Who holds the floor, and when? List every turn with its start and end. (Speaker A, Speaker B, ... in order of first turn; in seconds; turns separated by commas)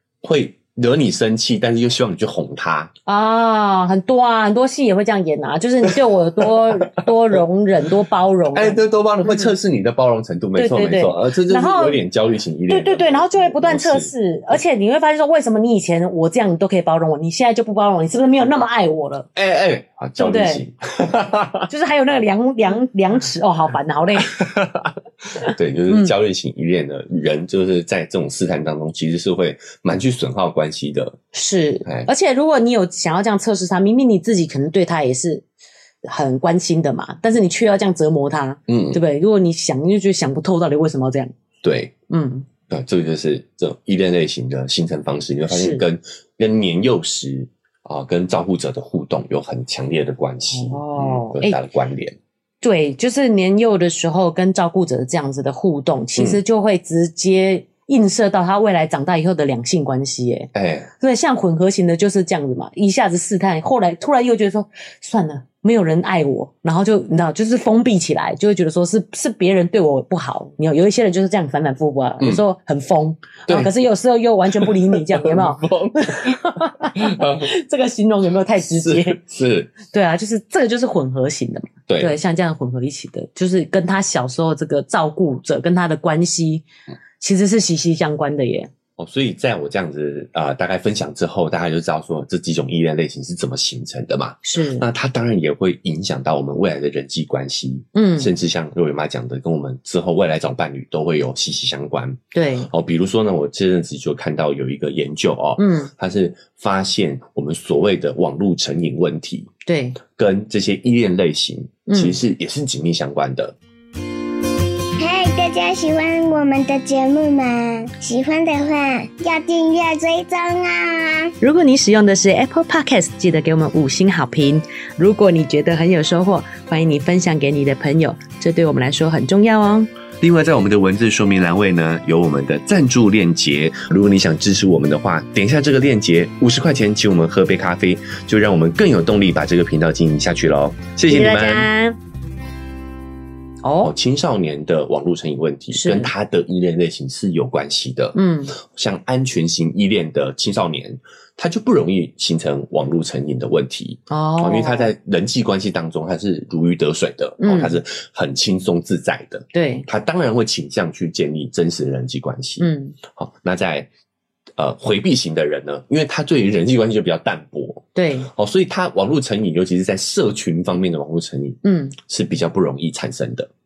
Speaker A: 0.2-2.9, Speaker B: 3.1-9.5, Speaker A: 6.4-7.1, Speaker A: 8.5-14.1, Speaker B: 10.6-12.0, Speaker B: 12.7-19.3, Speaker A: 19.4-21.7, Speaker B: 20.2-20.6, Speaker B: 21.7-24.5, Speaker A: 24.3-31.2, Speaker B: 25.4-26.1, Speaker B: 31.3-35.4, Speaker B: 36.0-41.3, Speaker A: 38.7-39.0, Speaker A: 41.6-41.9, Speaker B: 42.1-42.5, Speaker A: 42.7-52.2, Speaker B: 45.5-45.8, Speaker B: 50.5-51.6, Speaker B: 52.6-79.2, Speaker A: 56.2-56.4, Speaker A: 60.5-60.9, Speaker A: 73.5-73.7, Speaker A: 74.5-77.5, Speaker A: 78.6-79.8, Speaker B: 79.8-86.7, Speaker A: 81.9-82.2, Speaker B: 87.2-88.7, Speaker A: 89.0-109.5, Speaker B: 94.4-94.9, Speaker B: 98.0-98.3, Speaker B: 102.3-102.7, Speaker B: 105.6-105.9, Speaker B: 109.7-110.0, Speaker A: 110.1-113.6, Speaker B: 111.9-112.2, Speaker C: 115.0-121.3, Speaker B: 121.4-129.9, Speaker A: 130.2-141.7, Speaker B: 141.1-142.0, Speaker B: 143.6-143.9, Speaker A: 143.8-163.9, Speaker B: 145.7-146.1, Speaker B: 148.2-148.6, Speaker B: 154.1-154.9, Speaker B: 157.4-157.8, Speaker B: 159.5-159.9, Speaker B: 162.6-163.0, Speaker A: 164.6-173.5, Speaker B: 167.9-168.3, Speaker B: 171.6-172.0